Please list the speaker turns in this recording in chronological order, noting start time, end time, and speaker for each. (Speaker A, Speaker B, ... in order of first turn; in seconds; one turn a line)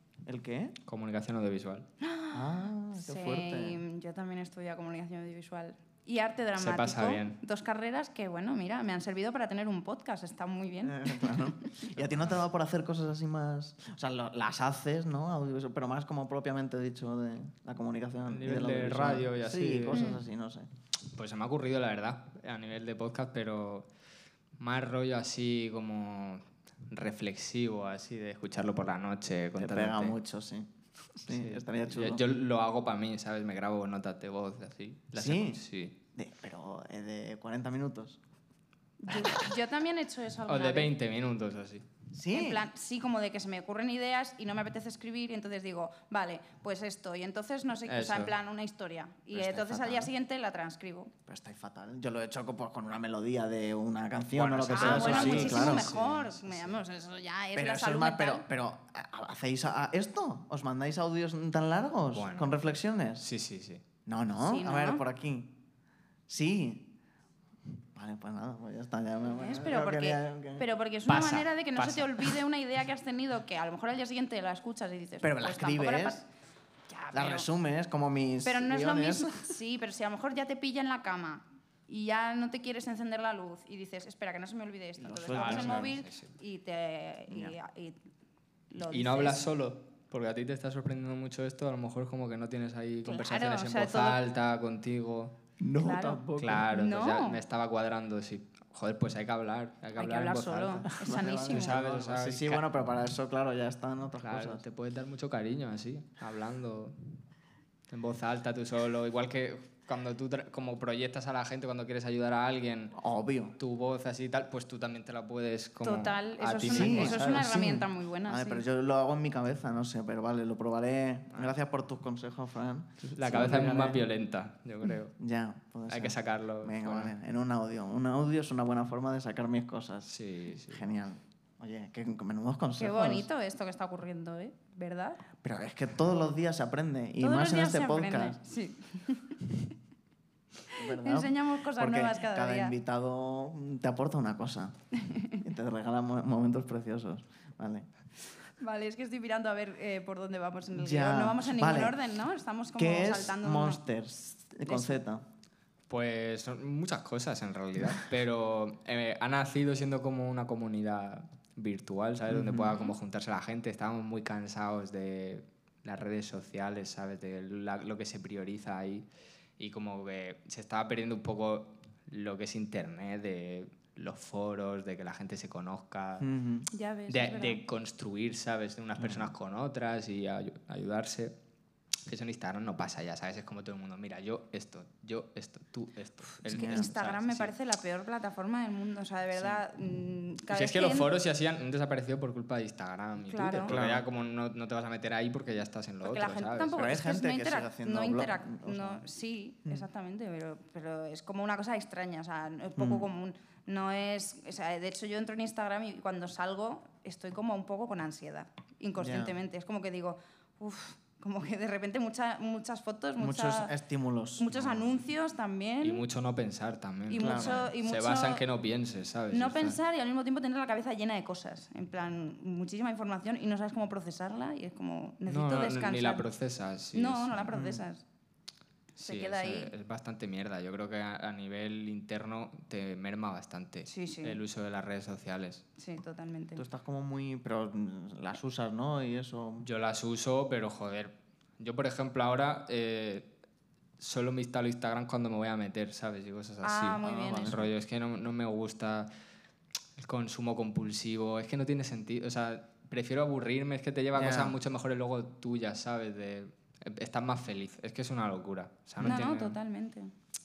Speaker A: 0.2-0.8
Speaker B: 0.9-1.9
Speaker C: 2.0-11.8
Speaker A: 2.3-3.8
Speaker B: 6.6-7.4
Speaker A: 10.8-20.7
Speaker B: 18.3-20.1
Speaker C: 19.9-20.2
Speaker B: 21.1-23.9
Speaker B: 24.6-30.2
Speaker A: 29.6-32.2
Speaker B: 31.3-36.0
Speaker A: 35.1-35.6
Speaker A: 36.1-38.2
Speaker C: 39.0-40.9
Speaker B: 40.5-41.9
Speaker A: 42.1-42.6
Speaker C: 42.3-51.1
Speaker B: 47.9-48.3
Speaker A: 49.3-50.1
Speaker A: 51.3-56.0
Speaker B: 54.3-56.7
Speaker C: 54.7-58.5
Speaker A: 57.5-63.2
Speaker B: 62.1-62.6
Speaker B: 63.2-63.8
Speaker A: 64.1-65.5
Speaker C: 64.4-65.0
Speaker A: 66.3-66.9
Speaker A: 67.9-70.7
Speaker C: 69.3-76.3
Speaker B: 71.1-72.4
Speaker A: 75.2-76.2
Speaker C: 76.9-77.5
Speaker A: 77.1-79.5
Speaker C: 78.4-88.0
Speaker A: 85.0-85.9
Speaker B: 85.3-86.3
Speaker C: 88.7-89.5
Speaker B: 88.9-95.3
Speaker C: 93.0-94.2
Speaker A: 95.6-96.7
Speaker C: 95.8-97.4
Speaker B: 96.4-102.7
Speaker C: 100.0-101.8
Speaker A: 100.8-104.6
Speaker B: 104.2-107.2
Speaker B: 107.9-113.0
Speaker A: 112.9-113.6
Speaker B: 113.6-117.5
Speaker C: 115.8-118.6
Speaker A: 116.7-124.0
Speaker B: 123.0-125.2
Speaker A: 125.2-130.1
Speaker B: 125.9-127.1
Speaker B: 130.1-130.8
Speaker A: 130.7-133.3
Speaker C: 132.8-135.2
Speaker A: 135.4-138.4
Speaker C: 137.2-139.4
Speaker C: 140.7-142.8
Speaker A: 140.7-144.7
Speaker C: 145.0-145.4
Speaker A: 145.3-147.9
Speaker C: 148.6-153.8
Speaker A: 150.7-152.0
Speaker A: 152.8-155.2
Speaker C: 154.7-155.0
Speaker B: 155.9-169.1
Speaker A: 162.3-162.8
Speaker B: 169.6-176.3
Speaker A: 176.2-176.7
Speaker C: 176.7-177.6
Speaker B: 177.1-181.3
Speaker A: 179.0-179.3
Speaker B: 182.1-187.5
Speaker C: 186.5-191.1
Speaker A: 186.5-186.9
Speaker A: 189.4-189.6
Speaker B: 190.5-196.8
Speaker C: 193.2-193.8
Speaker A: 193.7-194.1
Speaker C: 196.0-213.7
Speaker A: 196.8-199.0
Speaker A: 202.8-203.1
Speaker A: 209.0-209.3
Speaker A: 213.2-214.7
Speaker C: 214.4-216.0
Speaker B: 215.8-219.8
Speaker C: 217.1-218.4
Speaker A: 217.2-217.7
Speaker C: 219.3-226.3
Speaker B: 225.3-227.6
Speaker C: 226.9-228.0
Speaker A: 227.5-227.8
Speaker B: 229.0-235.6
Speaker C: 229.0-229.7
Speaker C: 233.9-234.4
Speaker C: 235.8-236.6
Speaker A: 236.6-239.7
Speaker B: 239.6-243.3
Speaker B: 244.0-249.1
Speaker C: 246.6-247.6
Speaker A: 247.0-247.7
Speaker B: 250.0-259.6
Speaker A: 254.1-254.6
Speaker C: 259.0-260.1